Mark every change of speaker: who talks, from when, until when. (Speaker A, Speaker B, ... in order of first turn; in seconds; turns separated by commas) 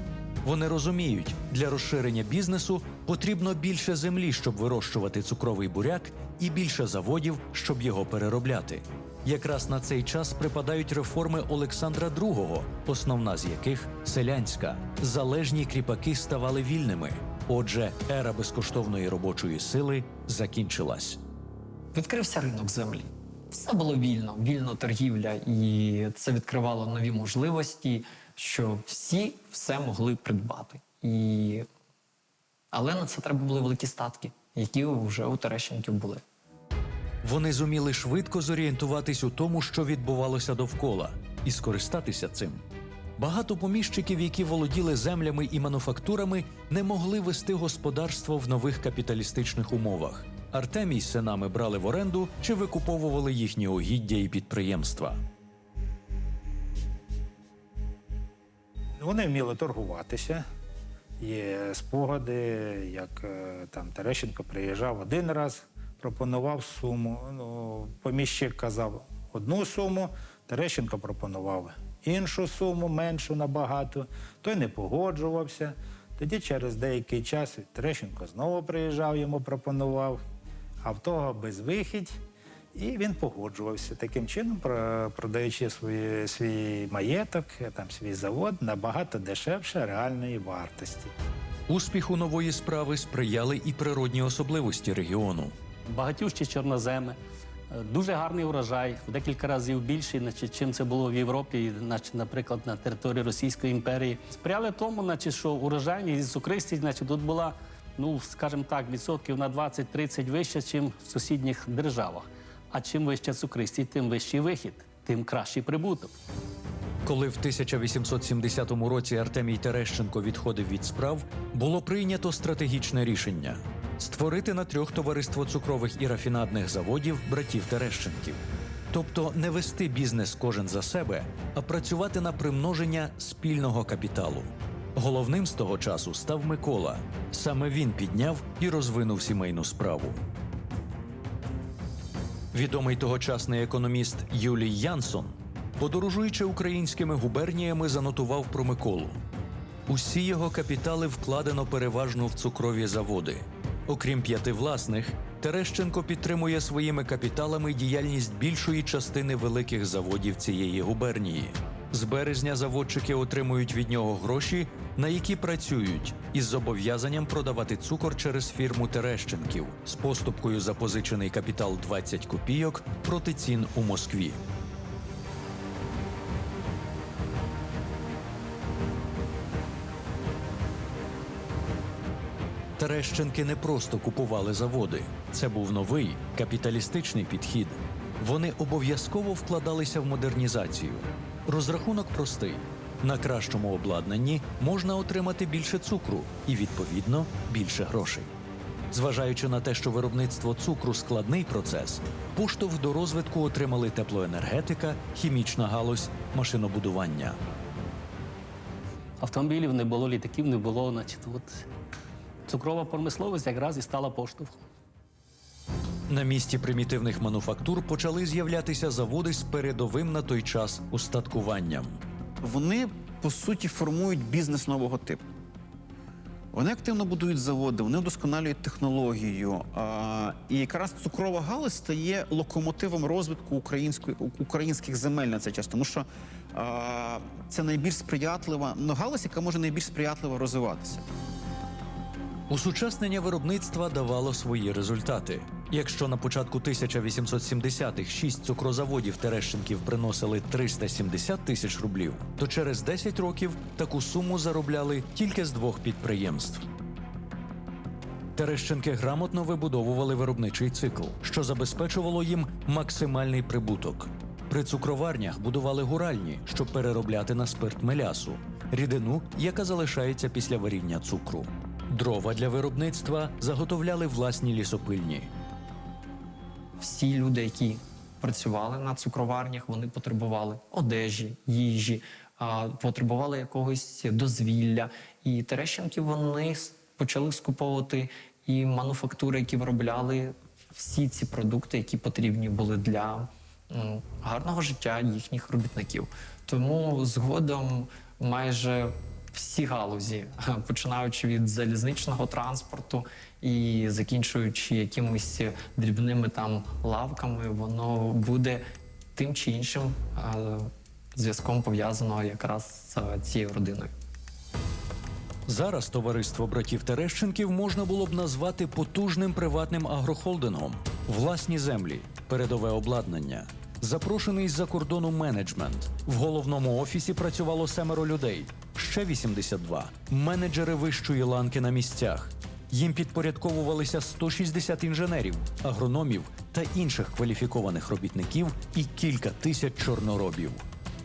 Speaker A: 0.4-21.2, Speaker B: 21.9-31.7, Speaker B: 32.7-36.2, Speaker A: 37.2-42.6, Speaker A: 43.2-55.2, Speaker C: 59.0-60.5, Speaker C: 61.2-80.2, Speaker C: 80.8-82.2, Speaker C: 82.8-91.1, Speaker A: 91.7-95.5, Speaker D: 95.9-97.2, Speaker D: 97.7-116.1, Speaker A: 117.0-140.2, Speaker A: 142.5-149.2, Speaker A: 149.9-174.4, Speaker A: 182.8-198.3, Speaker A: 198.9-207.4, Speaker D: 209.2-211.7, Speaker D: 212.5-214.6, Speaker A: 216.1-222.0, Speaker E: 222.4-225.2, Speaker E: 226.5-241.1, Speaker A: 242.5-256.7, Speaker A: 258.4-275.3, Speaker B: 276.8-313.9, Speaker A: 315.5-340.6